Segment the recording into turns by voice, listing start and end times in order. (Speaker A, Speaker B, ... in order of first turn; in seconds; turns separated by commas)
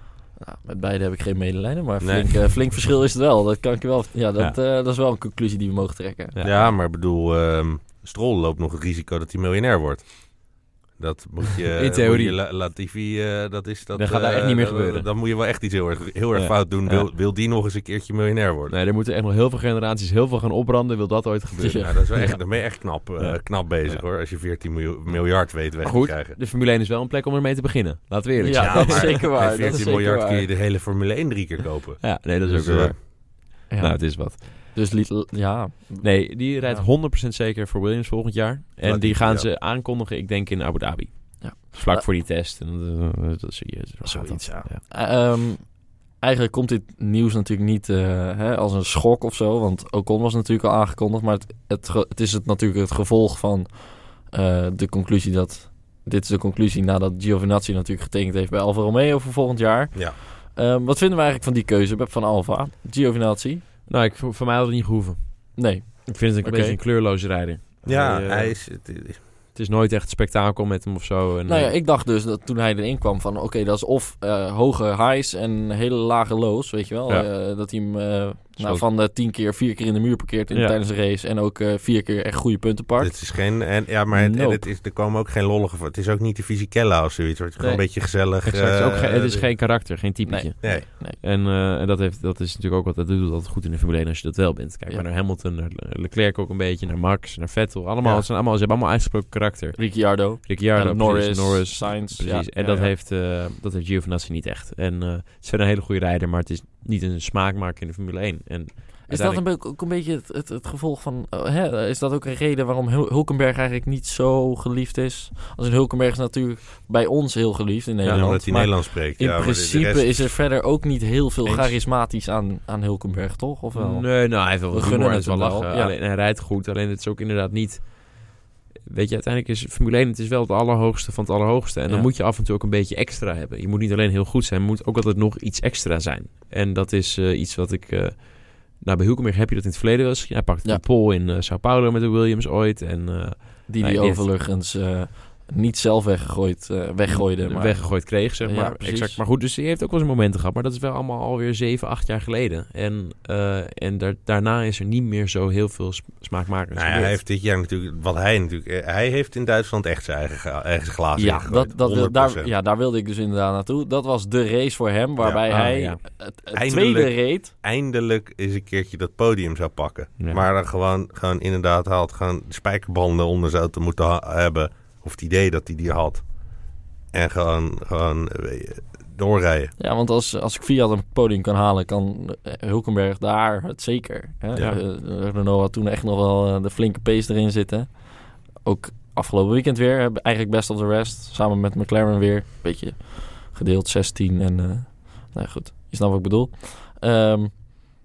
Speaker A: 0.4-6.6, Speaker B: 2.0-2.3, Speaker C: 6.3-6.7, Speaker B: 6.4-18.7, Speaker C: 11.8-12.4, Speaker C: 13.9-15.1, Speaker C: 16.3-17.1, Speaker C: 18.7-22.3, Speaker A: 21.6-22.4, Speaker B: 21.8-26.4, Speaker C: 23.2-24.0, Speaker C: 25.8-29.8, Speaker A: 28.4-30.5, Speaker B: 28.5-33.0, Speaker C: 32.0-34.5, Speaker A: 33.7-36.9, Speaker C: 36.0-44.8, Speaker B: 38.8-39.5, Speaker A: 41.4-42.0, Speaker A: 44.0-63.6, Speaker C: 63.9-68.6, Speaker A: 65.5-66.8, Speaker B: 67.8-69.2, Speaker C: 69.5-71.7, Speaker A: 71.5-83.5, Speaker C: 78.6-78.8, Speaker B: 83.0-89.5, Speaker A: 84.1-84.7, Speaker C: 87.6-109.4, Speaker A: 90.2-91.2, Speaker B: 98.0-98.3, Speaker A: 99.8-102.9, Speaker A: 109.1-125.9, Speaker B: 118.0-120.3, Speaker C: 121.4-121.7, Speaker C: 123.7-144.3, Speaker A: 131.9-132.1, Speaker A: 143.7-149.2, Speaker C: 147.1-157.2, Speaker B: 156.7-162.5, Speaker A: 161.2-167.5, Speaker C: 165.5-166.0, Speaker B: 166.5-176.2, Speaker C: 170.2-170.4, Speaker B: 177.1-179.7, Speaker A: 179.8-197.8